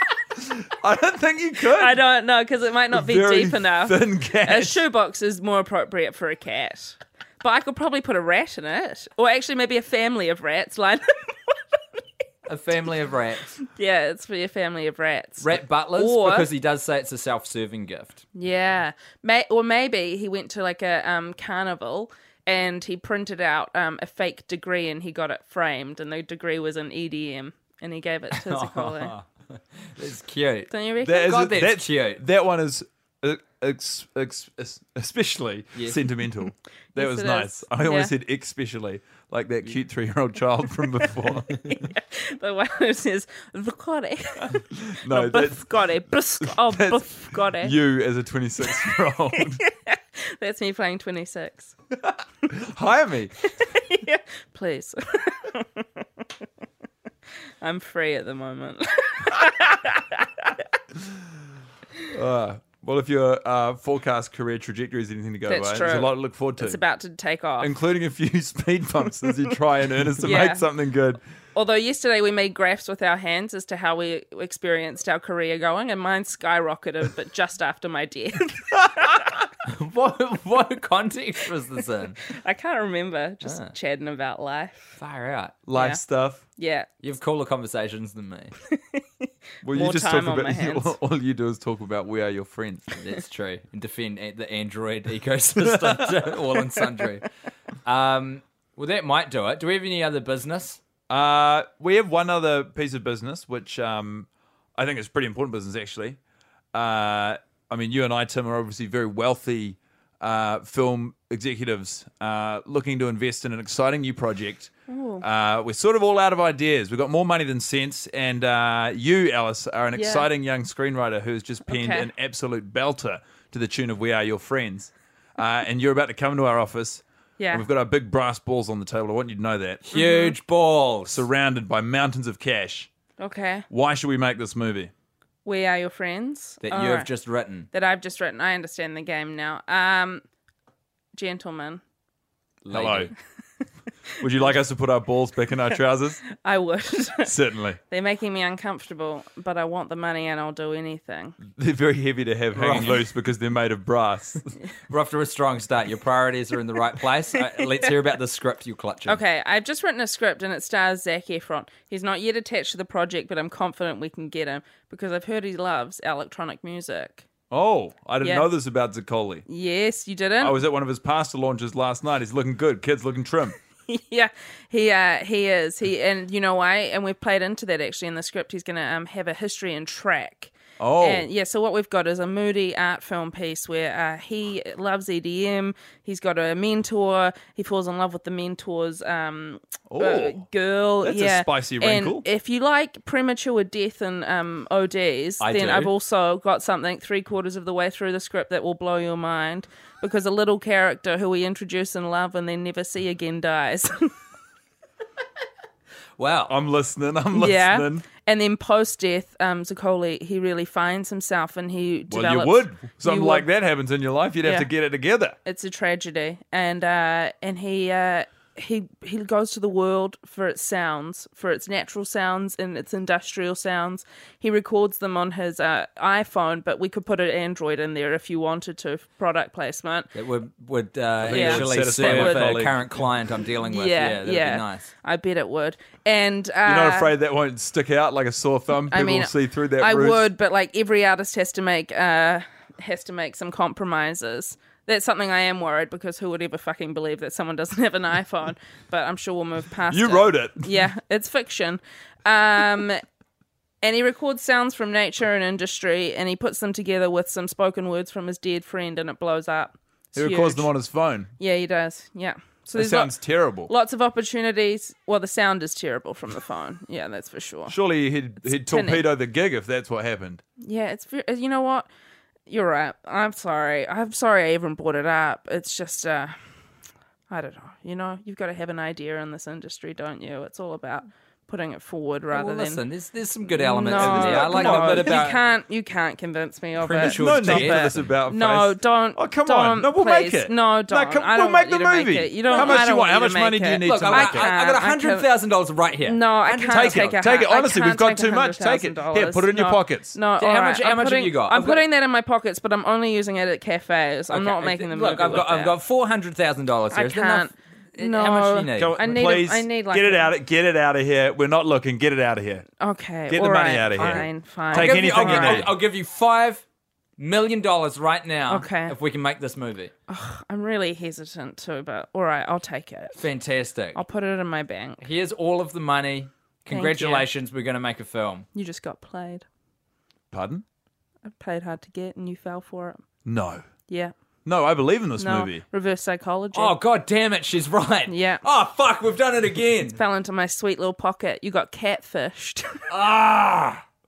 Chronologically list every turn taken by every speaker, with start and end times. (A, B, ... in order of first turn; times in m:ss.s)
0:00.4-0:02.0 A
0:01.7-0:11.8 B
0:02.9-0:04.8 A
0:12.5-0:13.5 C
0:13.6-0:16.5 B
0:15.4-0:18.2 C
0:18.3-0:29.1 B
0:28.4-0:32.2 C
0:30.7-0:31.4 B
0:31.0-0:41.8 A
0:35.7-0:36.0 C
0:36.9-0:38.1 B
0:41.7-0:47.8 B
0:44.4-0:49.6 A
0:48.7-0:51.7 B
0:52.1-0:53.3 A
0:53.6-0:56.0 B
0:57.6-1:00.6 B
1:02.1-1:06.8 A
1:05.5-1:07.7 B
1:07.6-1:11.2 A
1:10.2-1:10.7 B
1:11.5-1:19.2 B
1:19.6-1:22.2 C
1:22.3-1:25.0 B
1:23.4-1:23.7 C
1:25.0-1:25.6 C
1:25.6-1:26.4 A
1:25.7-1:26.0 B
1:26.6-1:26.9 B
1:27.0-1:28.5 C
1:28.7-1:29.0 B
1:29.6-1:33.0 A
1:29.6-1:30.9 B
1:33.0-1:37.3 C
1:35.6-1:36.3 A
1:37.8-1:40.8 C
1:41.1-1:46.2 A
1:46.7-2:09.8 A
1:54.9-1:55.2 B
1:59.9-2:00.2 B
2:01.7-2:02.1 B
2:07.4-2:07.6 B
2:09.9-2:11.2 C
2:09.9-2:10.4 B
2:11.1-2:12.9 A
2:13.2-2:13.6 B
2:13.7-2:14.9 A
2:15.4-2:17.1 B
2:16.6-2:17.7 C
2:17.7-2:20.2 B
2:21.1-2:21.8 B
2:22.6-2:23.1 C
2:22.7-2:23.1 A
2:24.2-2:26.2 A
2:26.3-2:27.3 B
2:27.2-2:27.8 A
2:27.9-2:31.4 B
2:31.5-2:34.5 A
2:32.6-2:32.9 C
2:34.9-2:39.2 C
2:37.6-2:38.1 B
2:39.0-2:47.3 B
2:47.5-2:49.4 A
2:48.2-2:48.5 B
2:49.5-2:50.6 B
2:50.4-2:53.6 A
2:53.9-3:24.1 B
3:00.8-3:01.3 A
3:09.9-3:10.5 A
3:11.0-3:12.2 A
3:15.4-3:15.9 C
3:26.2-3:26.5 C
3:26.5-3:28.0 A
3:27.3-3:33.5 B
3:32.1-3:35.4 A
3:34.4-3:34.7 B
3:35.4-3:50.1 B
3:50.1-3:54.9 C
3:51.2-3:52.8 A
3:51.2-3:52.6 B
3:53.7-3:57.1 B
3:56.6-4:00.3 A
3:58.9-4:13.0 B
4:09.9-4:10.8 A
4:13.8-4:20.7 B
4:20.1-4:21.3 A
4:21.4-4:27.8 B
4:22.7-4:23.7 A
4:27.7-4:30.4 A
4:28.4-4:29.0 B
4:30.6-4:31.9 B
4:32.5-4:36.3 B
4:37.3-4:42.8 B
4:42.3-4:45.4 C
4:43.5-4:55.3 B
4:43.8-4:45.4 A
4:46.8-4:48.1 C
4:47.0-4:54.5 A
4:52.5-4:52.8 C
4:53.8-4:57.0 C
4:56.0-5:05.8 B
4:56.6-5:00.2 A
5:00.4-5:01.8 C
5:04.3-5:09.0 C
5:06.9-5:10.3 B
5:08.7-5:12.6 A
5:12.8-5:15.7 B
5:13.3-5:15.7 A
5:13.9-5:16.6 C
5:17.2-5:19.9 C
5:18.5-5:19.0 B
5:20.1-5:23.2 B
5:23.2-5:24.0 C
5:23.9-5:25.0 B
5:25.0-5:28.5 C
5:26.7-5:27.3 B
5:28.5-5:29.4 B
5:30.3-5:30.6 A
5:31.3-5:33.0 B
5:33.2-5:33.6 A
5:33.9-5:34.1 B
5:34.4-5:35.6 A
5:35.2-5:36.8 B
5:36.5-5:40.0 C
5:38.1-5:38.4 B
5:40.0-5:42.8 B
5:42.9-5:43.8 A